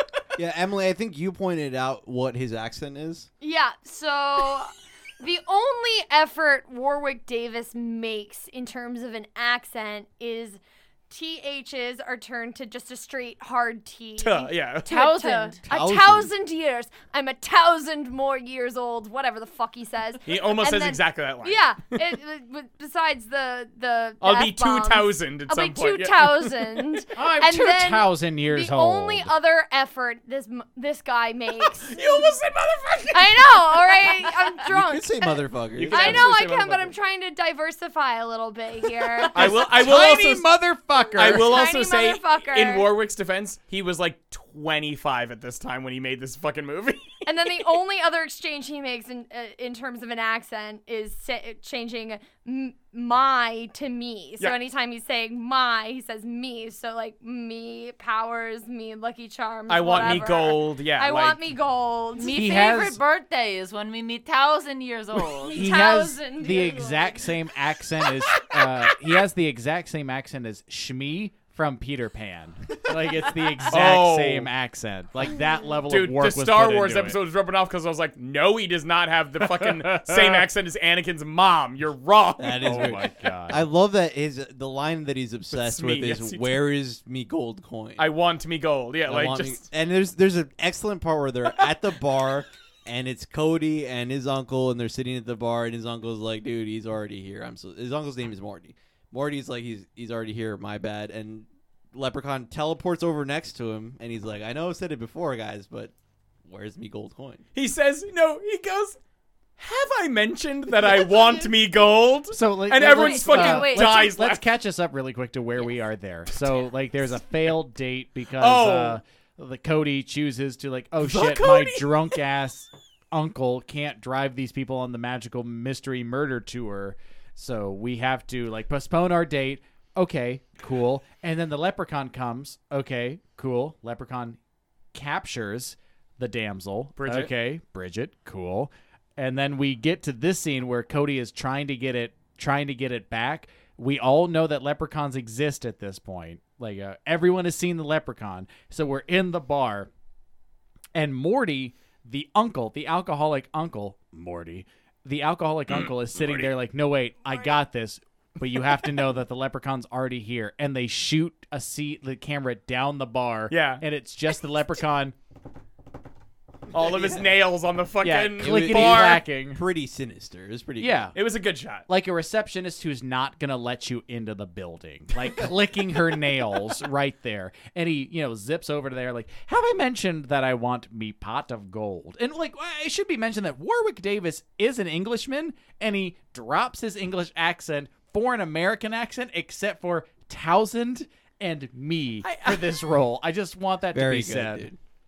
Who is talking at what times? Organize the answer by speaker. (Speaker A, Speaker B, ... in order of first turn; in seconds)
Speaker A: 0.4-3.3, 15.7-16.3, 34.6-36.3, 82.4-88.1, 89.1-105.9, 106.5-107.4, 166.7-167.3, 168.4-171.1, 193.9-194.8
Speaker B: 3.4-32.2, 33.1-39.6, 41.2-42.9, 47.2-62.7, 65.4-67.3
Speaker C: 14.2-14.9, 20.3-22.1, 24.2-26.9, 31.6-34.3, 35.8-36.9, 39.3-40.5, 41.2-47.2, 59.7-61.4, 73.7-74.5, 75.9-83.0, 85.5-86.6, 88.0-89.7, 107.5-109.0, 109.6-114.4, 116.3-116.6, 118.4-119.0, 121.0-122.2, 137.0-137.3, 155.7-156.5, 163.5-163.8, 166.7-169.2, 171.2-171.9, 192.2-192.8
Speaker D: 14.9-15.6, 62.2-65.7, 112.9-114.1
Speaker E: 27.2-29.3, 39.3-41.6, 62.3-63.0, 65.5-77.2, 79.4-80.5, 82.6-83.7, 112.3-134.4, 134.9-149.9, 150.9-165.2, 168.0-169.6, 170.8-171.2, 171.9-194.7